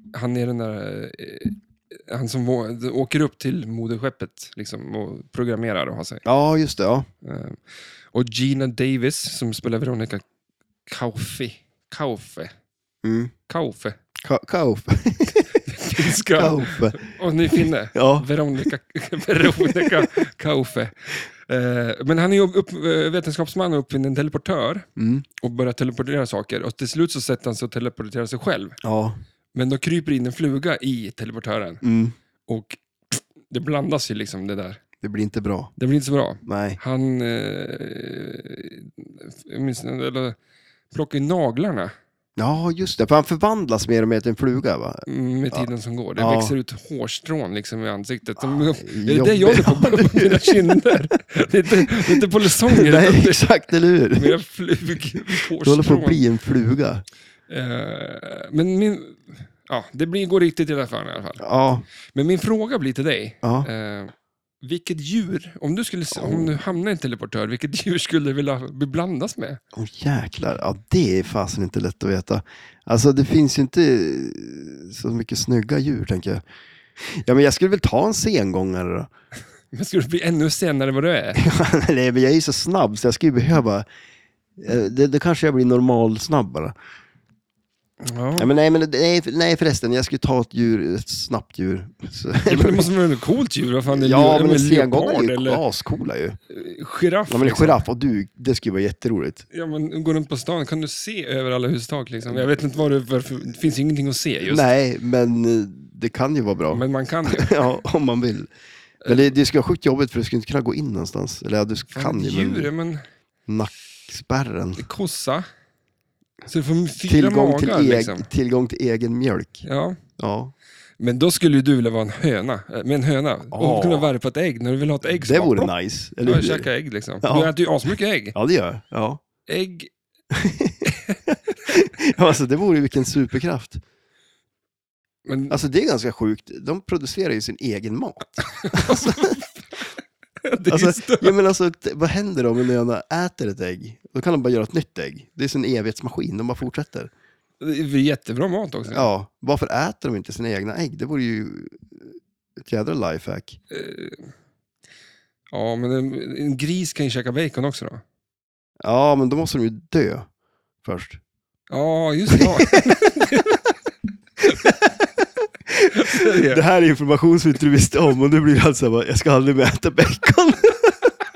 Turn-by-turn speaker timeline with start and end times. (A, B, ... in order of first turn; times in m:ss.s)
0:00.1-0:06.2 A
0:06.2-0:07.1 B
0:07.2-0:07.6 A
0:08.1-0:10.2 A
0:10.8-0:12.5 A
0:13.0-0:13.3 B
0:13.5-0:14.0 A
0:14.2-0:17.1 B
0:15.6-0:28.8 A
0:17.6-0:18.3 B
0:19.4-0:20.1 B
0:25.0-0:25.2 B
0:28.8-0:29.2 B
0:29.5-0:31.8 A
0:31.8-0:32.1 B
0:32.5-0:34.8 A
0:35.0-0:35.7 B
0:35.8-0:40.4 A
0:36.4-0:36.8 B
0:40.9-0:41.9 A
0:42.4-0:46.6 B
0:45.0-0:53.5 A
0:48.4-0:50.9 B
0:51.8-0:54.3 B
0:54.1-0:56.2 A
0:55.4-0:57.0 B
0:57.5-1:01.4 A
1:01.4-1:01.8 B
1:02.1-1:09.6 A
1:03.4-1:03.7 B
1:06.1-1:06.6 B
1:09.7-1:16.4 B
1:17.0-1:19.1 B
1:19.7-1:21.4 A
1:21.3-1:23.8 B
1:24.6-1:26.7 B
1:28.0-1:28.5 A
1:28.4-1:32.9 B
1:32.4-1:35.6 A
1:33.9-1:36.4 B
1:36.5-1:37.8 A
1:37.3-1:39.4 B
1:39.5-1:44.7 A
1:44.4-1:48.5 B
1:46.7-1:47.6 A
1:49.0-1:49.3 A
1:49.0-1:52.7 B
1:51.9-1:53.0 A
1:53.5-1:54.8 B
1:54.8-1:55.4 A
1:56.4-1:58.3 A
1:57.0-1:59.6 B
1:59.6-2:00.0 A
2:00.2-2:00.5 B
2:01.0-2:05.7 A
2:03.5-2:04.1 B
2:05.2-2:06.7 B
2:06.2-2:08.4 A
2:07.2-2:07.5 B
2:08.3-2:09.2 B
2:09.4-2:09.9 A
2:10.3-2:13.8 B
2:10.8-2:11.2 A
2:15.2-2:15.6 A
2:15.5-2:19.3 B
2:18.5-2:19.8 A
2:20.4-2:21.3 A
2:20.7-2:27.1 B
2:27.6-2:29.1 A
2:28.9-2:33.6 B
2:33.7-2:34.3 A
2:35.5-2:38.0 A
2:38.8-2:40.3 B
2:40.8-2:41.2 B
2:41.7-2:43.6 A
2:42.3-2:42.8 B
2:44.4-2:51.1 B
2:45.9-2:46.6 A